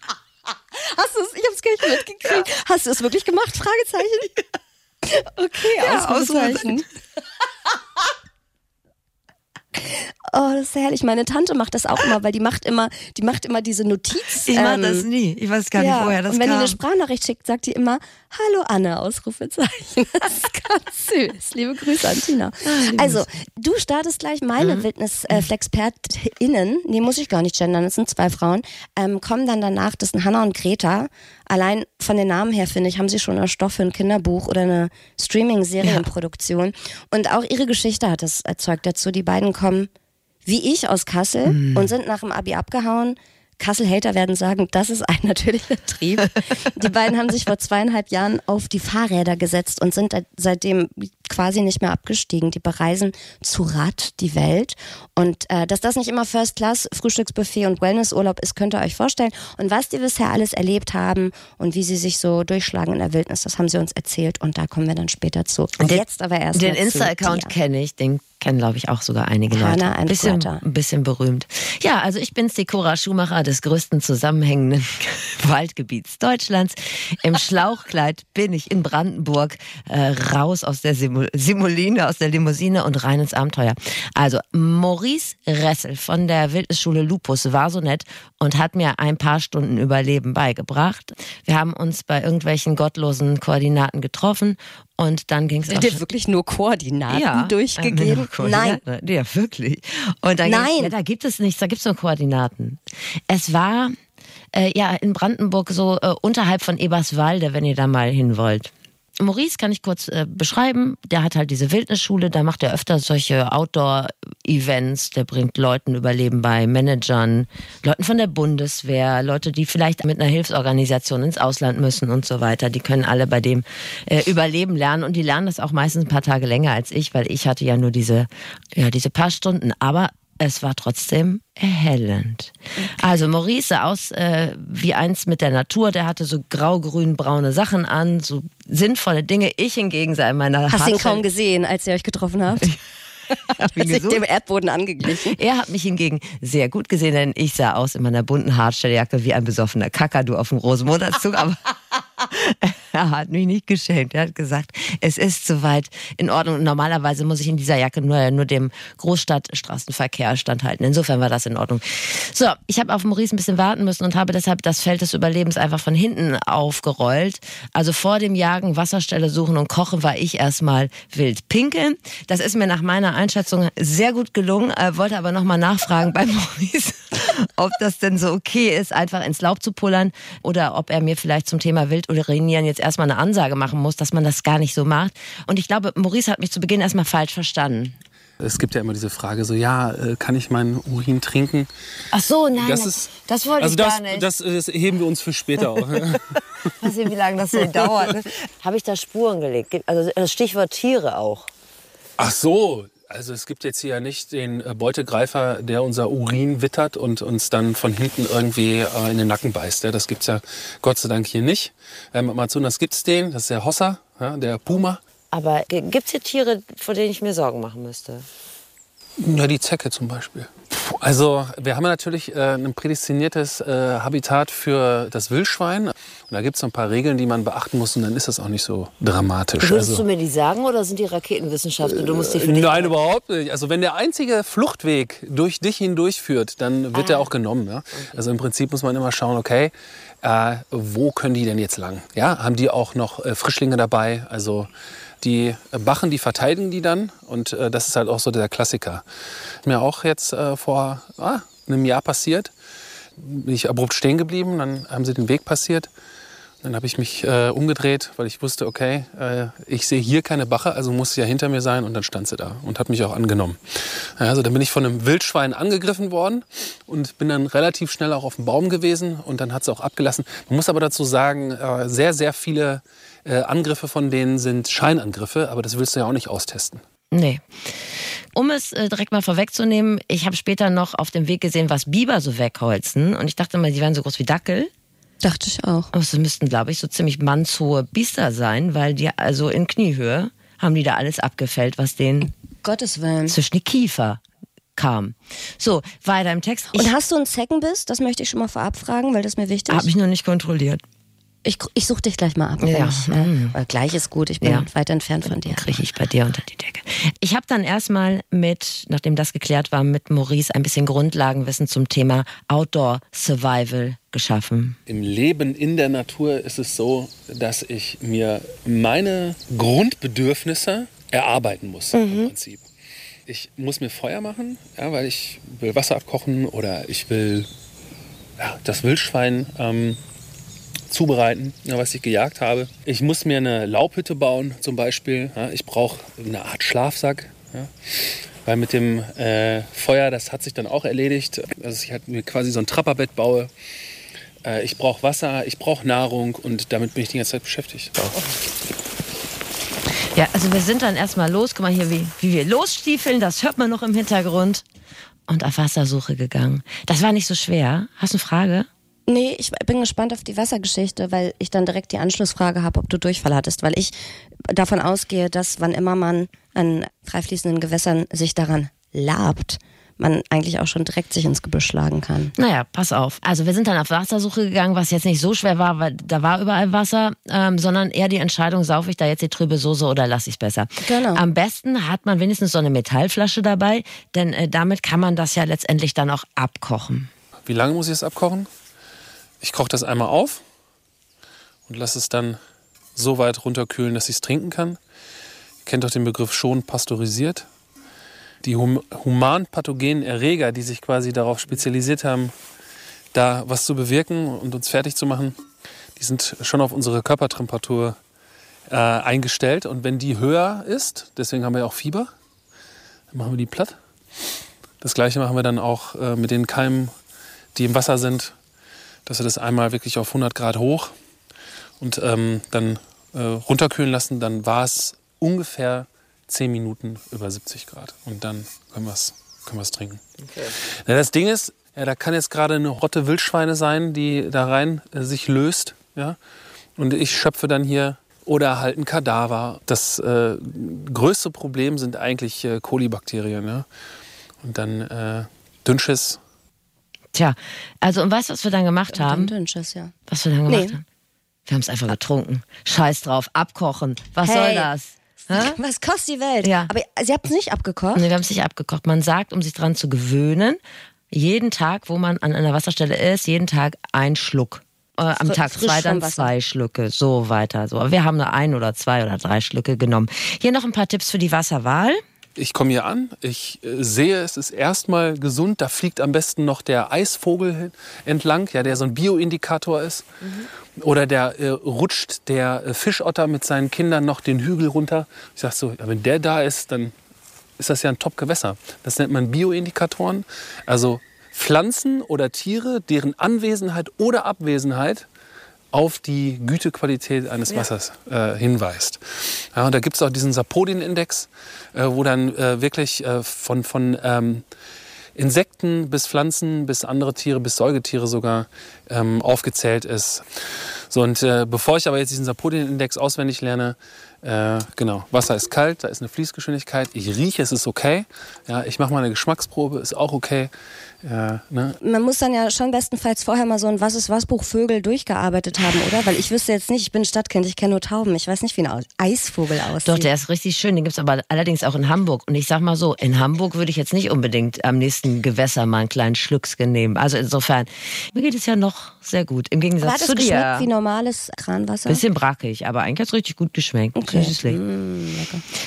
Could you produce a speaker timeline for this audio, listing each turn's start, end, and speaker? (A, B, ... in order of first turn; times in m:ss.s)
0:00.7-0:04.4 A
0:05.0-0:06.8 A
0:05.7-0:06.8 B
0:09.8-0:15.0 A
0:14.4-0:16.8 B
0:15.8-0:39.9 A
0:22.6-0:23.2 B
0:24.6-0:25.4 B
0:40.4-1:07.5 A
0:41.5-0:41.9 B
1:06.5-1:36.0 B
1:09.5-1:10.6 A
1:35.7-1:38.8 A
1:37.1-1:44.0 B
1:40.4-1:40.9 A
1:44.5-2:21.2 B
2:20.7-2:22.8 A
2:23.3-2:25.4 A
2:23.6-2:24.2 B
2:25.0-3:08.0 B
3:08.4-3:11.7 C
3:12.1-3:14.3 B
3:12.6-3:13.1 C
3:13.6-3:16.7 C
3:16.8-3:21.5 B
3:22.2-3:35.0 C
3:35.3-3:38.2 B
3:39.2-3:50.0 C
3:49.6-3:52.9 B
3:52.1-4:04.7 C
3:56.9-3:57.3 B
4:05.2-4:09.0 C
4:09.6-4:12.5 C
4:13.2-4:15.9 C
4:16.6-4:36.8 C
4:37.1-4:44.7 B
4:45.2-4:45.9 A
4:45.9-4:52.3 B
4:52.6-4:53.4 A
4:53.3-4:54.2 B
4:54.8-4:56.9 B
4:56.7-4:59.9 A
4:59.7-5:00.8 B
5:01.4-5:05.9 A
5:02.6-5:03.5 B
5:05.2-5:14.8 B
5:14.9-5:22.6 C
5:23.3-5:27.5 C
5:28.4-5:30.0 C
5:30.9-5:43.5 C
5:44.4-5:48.1 C
5:50.1-5:54.6 B
5:55.3-5:58.7 B
5:59.1-6:04.0 A
6:04.5-6:12.3 A
6:12.4-6:27.1 B
6:20.8-6:21.2 A
6:27.5-6:28.5 C
6:29.4-6:30.4 C
6:31.7-6:32.4 C
6:33.0-6:34.8 C
6:35.6-6:37.5 C
6:38.4-6:42.3 C
6:43.1-6:45.4 C
6:46.0-6:48.0 C
6:48.7-6:52.1 C
6:53.1-6:53.8 C
6:54.8-6:56.9 C
6:57.5-6:58.3 C
6:59.0-7:00.9 C
7:01.8-7:16.2 C
7:16.8-7:23.6 C
7:24.4-7:26.2 C
7:27.1-7:29.3 B
7:28.9-7:29.9 A
7:30.1-7:30.8 B
7:30.5-7:30.8 A
7:31.4-7:35.6 B
7:34.2-7:34.7 A
7:35.3-7:38.0 A
7:36.4-7:36.7 B
7:37.9-7:52.0 B
7:45.2-7:46.3 A
7:52.4-8:00.0 C
8:00.2-8:00.5 B
8:00.8-8:06.9 C
8:07.6-8:15.0 C
8:15.7-8:24.4 C
8:25.2-8:30.2 C
8:30.9-8:40.5 C
8:41.0-8:41.8 C
8:41.8-8:50.1 A
8:49.8-9:00.7 B
8:59.8-9:02.0 A
9:01.9-9:04.6 B
9:04.0-9:05.4 A